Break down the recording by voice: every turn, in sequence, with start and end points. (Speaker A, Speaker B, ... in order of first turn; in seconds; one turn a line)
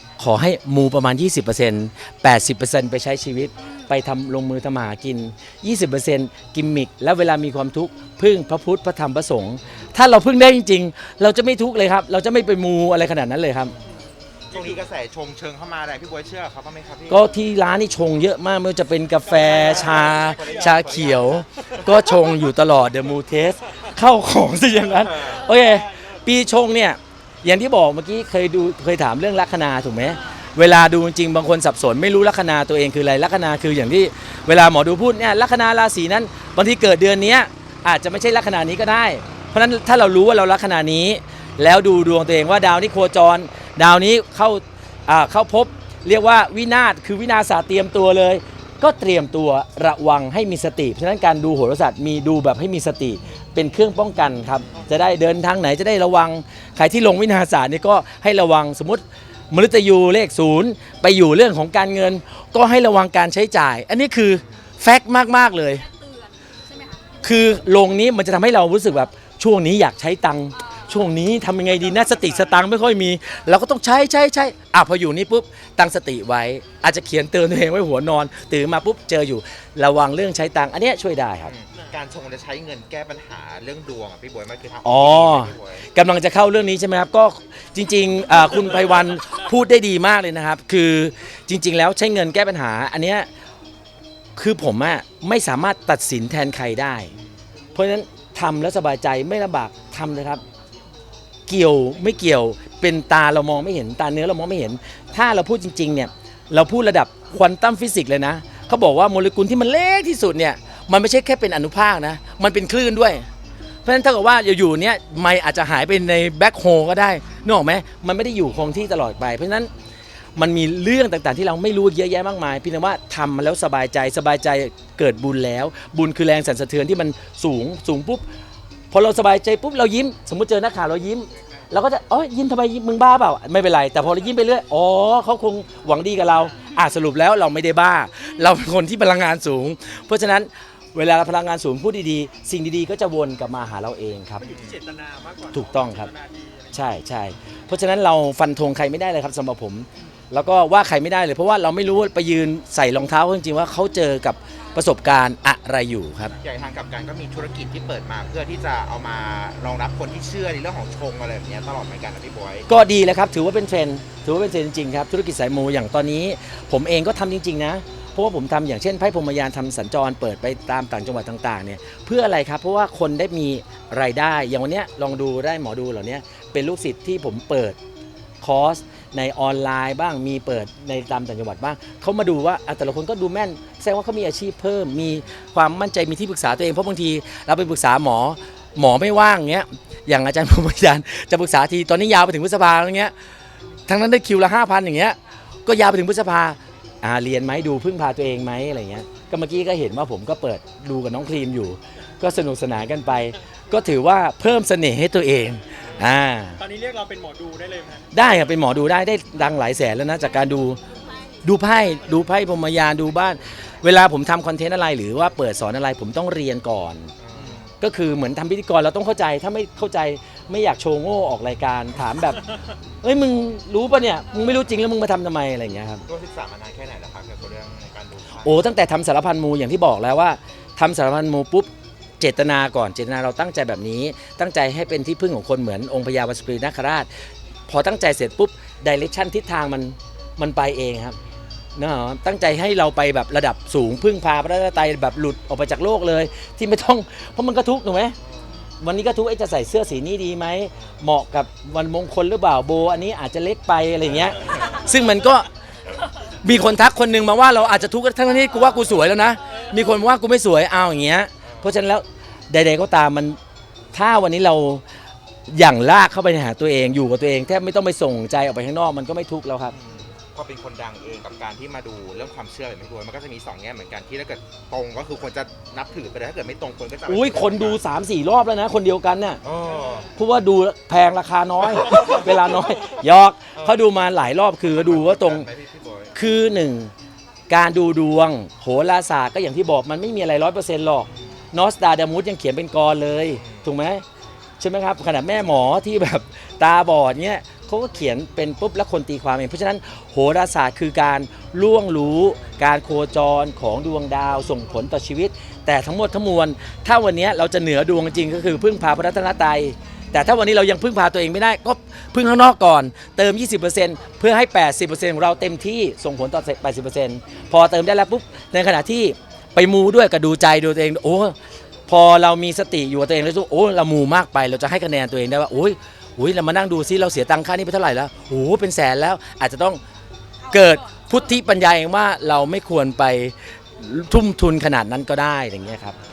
Speaker A: 0.2-13.7
Speaker B: 14.5-14.8
Speaker C: 14.5-17.3
Speaker A: 17.1-65.8
Speaker B: 19.2-20.9
Speaker C: 19.4-22.1
Speaker B: 22.0-22.3
Speaker B: 24.9-26.3
Speaker C: 25.0-25.4
Speaker D: 65.8-67.3
Speaker A: 67.2-81.5
Speaker D: 70.5-71.0
Speaker B: 71.7-72.6
Speaker C: 81.4-85.9
Speaker A: 84.8-93.3
Speaker B: 88.6-89.1
Speaker A: 94.4-97.1
Speaker A: 97.7-100.4
Speaker A: 101.5-113.2
Speaker A: 113.8-119.7
Speaker A: 120.4-128.2
Speaker A: 128.9-144.4
Speaker C: 144.4-144.8
Speaker B: 144.4-146.9
Speaker A: 145.5-146.1
Speaker A: 146.7-156.3
Speaker C: 156.4-162.7
Speaker A: 162.7-177.8
Speaker A: 178.4-193.1
Speaker A: 193.9-206.6
Speaker B: 206.6-208.1
Speaker A: 208.1-210.8
Speaker D: 210.9-211.2
Speaker A: 211.4-217.1
Speaker C: 217.2-217.7
Speaker A: 217.8-226.0
Speaker C: 226.1-228.7
Speaker A: 228.4-231.7
Speaker A: 232.2-237.1
Speaker A: 237.7-241.2
Speaker A: 241.8-248.2
Speaker C: 248.2-248.6
Speaker A: 248.8-255.5
Speaker C: 254.1-254.8
Speaker A: 256.4-263.4
Speaker C: 261.4-261.7
Speaker A: 263.9-264.8
Speaker A: 265.5-269.7
Speaker C: 269.7-277.8
Speaker A: 277.1-279.4
Speaker C: 279.4-280.1
Speaker A: 280.1-285.5
Speaker C: 283.6-283.9
Speaker C: 284.6-286.2
Speaker A: 286.1-286.9
Speaker A: 287.5-294.0
Speaker C: 291.1-291.4
Speaker C: 293.3-293.7
Speaker A: 294.6-321.4
Speaker A: 321.9-329.8
Speaker D: 330.4-331.2
Speaker A: 330.5-335.9